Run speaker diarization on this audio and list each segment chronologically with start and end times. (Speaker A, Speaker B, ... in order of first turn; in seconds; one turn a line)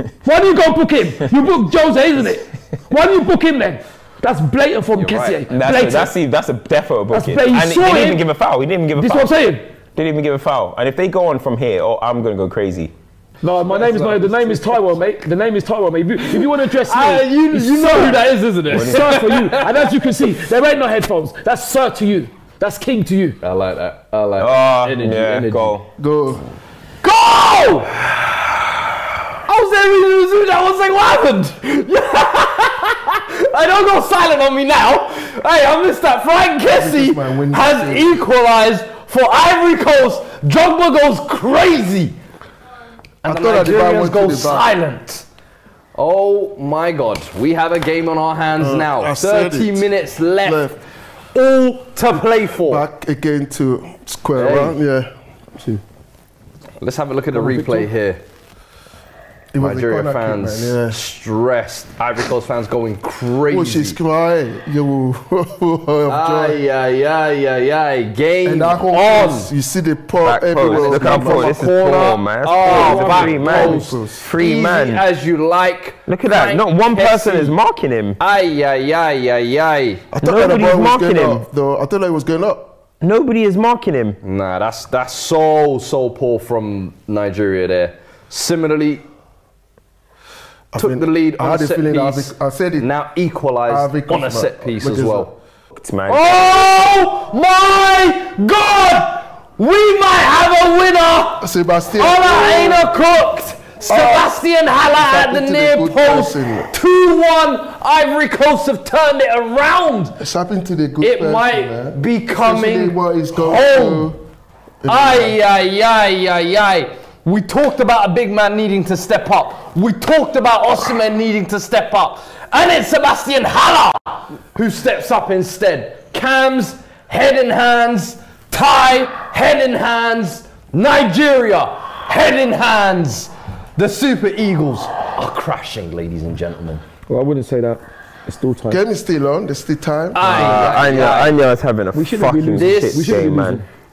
Speaker A: 0.2-6.1
Speaker B: 5.0-5.4
Speaker C: 5.5-9.3
Speaker A: 7.1-8.2
Speaker A: 8.9-9.6
Speaker C: 9.9-12.9
Speaker A: 13.4-23.4
Speaker B: 13.6-15.0
Speaker B: 16.2-19.9
Speaker C: 18.7-19.1
Speaker B: 23.4-25.8
Speaker C: 24.4-25.9
Speaker D: 26.0-26.4
Speaker B: 27.0-28.0
Speaker B: 29.4-42.1
Speaker D: 36.7-38.2
Speaker B: 43.2-45.2
Speaker D: 43.2-44.7
Speaker B: 46.0-50.8
Speaker D: 48.6-49.9
Speaker D: 50.4-50.8
Speaker B: 51.3-52.8
Speaker D: 52.6-55.8
Speaker B: 54.3-54.8
Speaker B: 56.8-58.2
Speaker A: 57.3-57.9
Speaker D: 59.5-61.0
Speaker B: 59.6-64.0
Speaker D: 63.5-66.6
Speaker B: 66.1-69.5
Speaker D: 68.4-74.3
Speaker C: 70.2-75.0
Speaker B: 70.6-77.6
Speaker A: 72.7-73.8
Speaker C: 76.0-78.2
Speaker B: 78.2-80.0
Speaker D: 80.1-82.7
Speaker C: 80.2-81.4
Speaker C: 83.0-84.2
Speaker B: 84.2-89.0
Speaker D: 90.7-92.9
Speaker B: 90.8-95.3
Speaker D: 93.6-95.3
Speaker C: 95.8-96.9
Speaker B: 96.1-110.2
Speaker D: 101.4-103.0
Speaker D: 103.8-104.4
Speaker D: 104.9-106.7
Speaker D: 110.2-114.2
Speaker B: 111.0-114.1
Speaker D: 114.8-115.3
Speaker B: 114.8-136.8
Speaker A: 137.1-138.8
Speaker D: 138.7-140.7
Speaker B: 140.1-141.4
Speaker C: 140.2-143.6
Speaker A: 141.9-143.7
Speaker B: 142.6-143.2